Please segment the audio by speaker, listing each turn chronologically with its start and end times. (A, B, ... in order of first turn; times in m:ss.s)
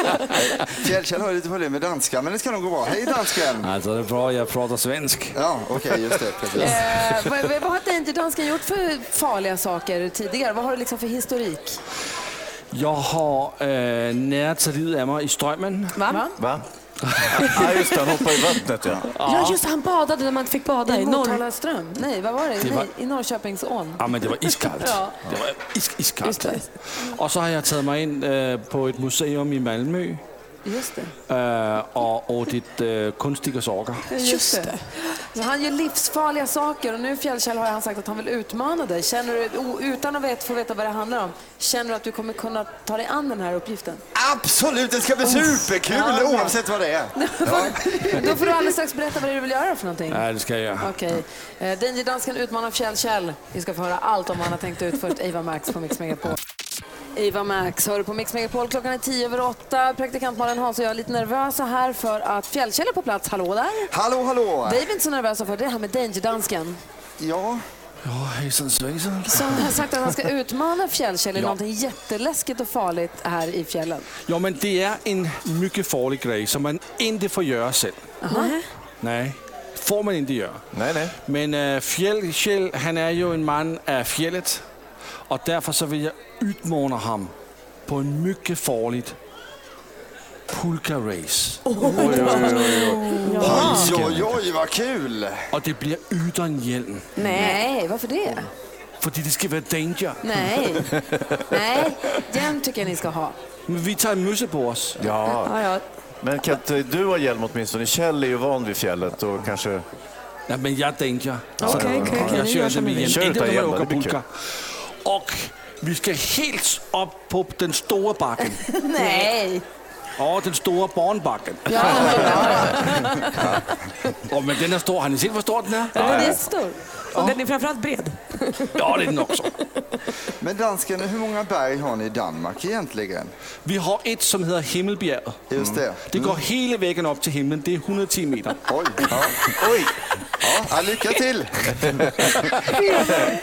0:00.5-0:03.7 A
0:03.6-0:05.4 B
0:05.3-0:06.8 A
0:06.6-0:11.8 C
0:12.7-0:16.0 B
0:16.0-0:16.2 D
0:16.0-0:16.3 C
0:16.4-0:16.6 E
0:17.1-0:17.8 B
0:17.4-0:19.1 E
0:19.1-0:19.6 B
0:19.2-0:21.4 D
0:20.8-0:24.0 C
0:22.6-0:22.9 B
0:24.0-0:30.2 B
0:24.8-0:25.1 C
0:26.2-0:26.6 D
0:30.6-0:31.1 C
0:31.3-0:34.1 B
0:34.1-0:34.8 D
0:34.2-0:44.0 C
0:44.1-0:48.3 A
0:45.2-0:46.6 C
0:47.2-0:50.2 C
0:50.1-0:50.9 B
0:50.8-0:56.4 C
0:57.1-1:03.9 C
1:03.9-1:04.8 A
1:04.6-1:06.8 C
1:07.2-1:07.6 A
1:08.0-1:09.8 B
1:09.3-1:14.1 C
1:14.3-1:18.1 B
1:18.2-1:18.5 C
1:18.3-1:18.6 D
1:19.0-1:20.6 B
1:20.7-1:21.1 E
1:21.2-1:24.6 B
1:25.3-1:27.3 B
1:27.8-1:29.2 B
1:30.5-1:34.1 B
1:31.7-1:33.9 D
1:33.4-1:35.4 A
1:34.0-1:34.3 E
1:35.5-1:37.1 B
1:37.2-1:37.6 D
1:37.2-1:38.5 C
1:39.0-1:40.7 B
1:40.2-1:40.9 C
1:41.5-1:43.4 C
1:43.7-1:45.1 B
1:45.0-1:45.6 E
1:45.3-1:45.8 D
1:46.2-1:49.8 E
1:50.5-1:54.3 B
1:51.6-1:53.2 D
1:51.6-1:52.5 E
1:53.0-1:54.2 E
1:55.0-1:58.6 B
1:58.7-1:59.6 C
2:00.2-2:02.8 B
2:01.7-2:03.0 D
2:01.7-2:03.4 C
2:04.3-2:06.3 B
2:06.0-2:06.8 C
2:06.0-2:06.3 E
2:07.1-2:08.7 D
2:08.8-2:09.5 B
2:10.4-2:13.3 A
2:13.6-2:15.4 B
2:15.5-2:16.4 A
2:16.0-2:18.6 B
2:18.7-2:19.4 A
2:19.6-2:19.9 E
2:20.4-2:21.7 A